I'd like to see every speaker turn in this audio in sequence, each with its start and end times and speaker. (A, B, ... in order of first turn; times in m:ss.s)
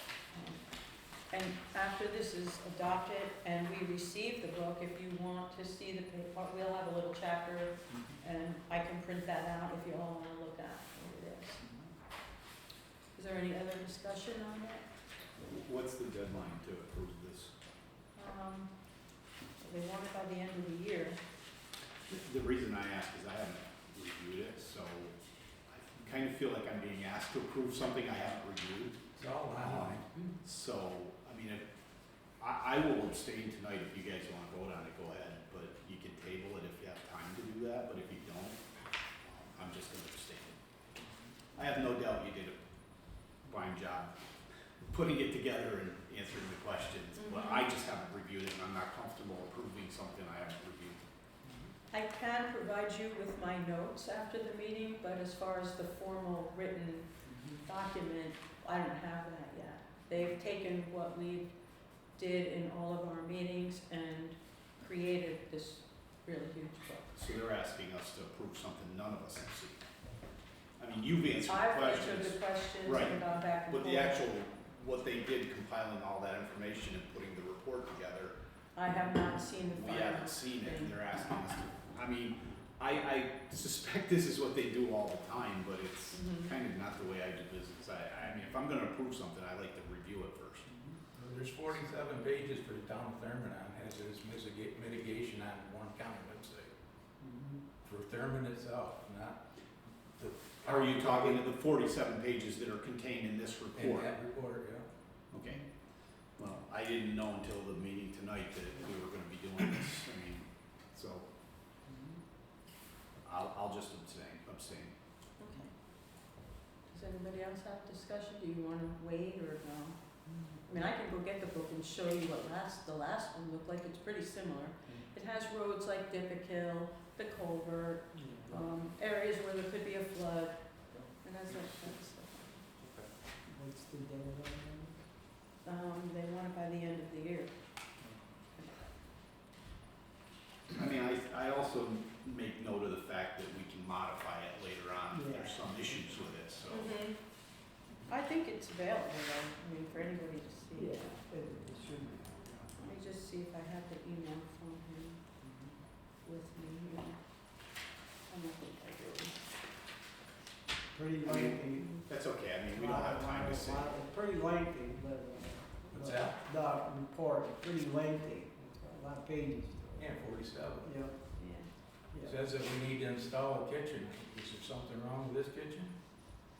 0:00.3-0:00.6 A
0:01.3-0:11.6 A
0:13.2-0:14.8 A
0:15.4-0:17.5 B
0:18.2-0:18.7 A
0:19.6-0:21.2 A
0:22.1-0:25.2 B
0:25.7-0:29.0 B
0:29.2-0:30.0 C
0:29.6-0:31.6 B
0:32.4-0:38.6 B
0:39.2-0:40.6 B
0:41.6-0:42.6 B
0:43.4-0:44.1 B
0:44.8-0:51.0 B
0:47.2-0:47.7 A
0:51.9-0:57.1 A
0:57.3-0:57.6 D
0:57.6-1:01.5 A
1:02.2-1:07.1 A
1:07.2-1:09.8 B
1:10.8-1:18.3 B
1:11.5-1:14.2 A
1:18.8-1:21.0 A
1:19.7-1:30.7 B
1:26.1-1:26.5 A
1:31.1-1:36.7 C
1:37.2-1:37.6 D
1:37.8-1:39.4 C
1:40.2-1:41.4 C
1:40.6-1:44.1 B
1:43.8-1:44.9 C
1:45.3-1:45.6 B
1:46.4-1:51.2 B
1:53.2-1:54.9 B
1:55.4-1:55.7 A
1:56.9-2:00.0 A
2:00.3-2:00.7 D
2:00.7-2:10.6 A
2:08.1-2:08.6 D
2:11.2-2:12.6 A
2:13.5-2:15.0 D
2:15.6-2:17.5 A
2:20.7-2:26.9 B
2:25.1-2:26.0 D
2:26.7-2:27.2 A
2:28.1-2:31.1 A
2:30.7-2:32.8 D
2:32.8-2:35.2 A
2:35.4-2:35.7 D
2:36.2-2:37.2 A
2:38.3-2:39.4 A
2:40.9-2:41.9 D
2:41.2-2:44.0 B
2:42.7-2:50.2 D
2:45.9-2:46.4 C
2:50.0-2:50.9 C
2:50.8-2:51.2 D
2:51.4-2:51.7 A
2:52.1-2:52.4 D
2:52.2-2:55.9 C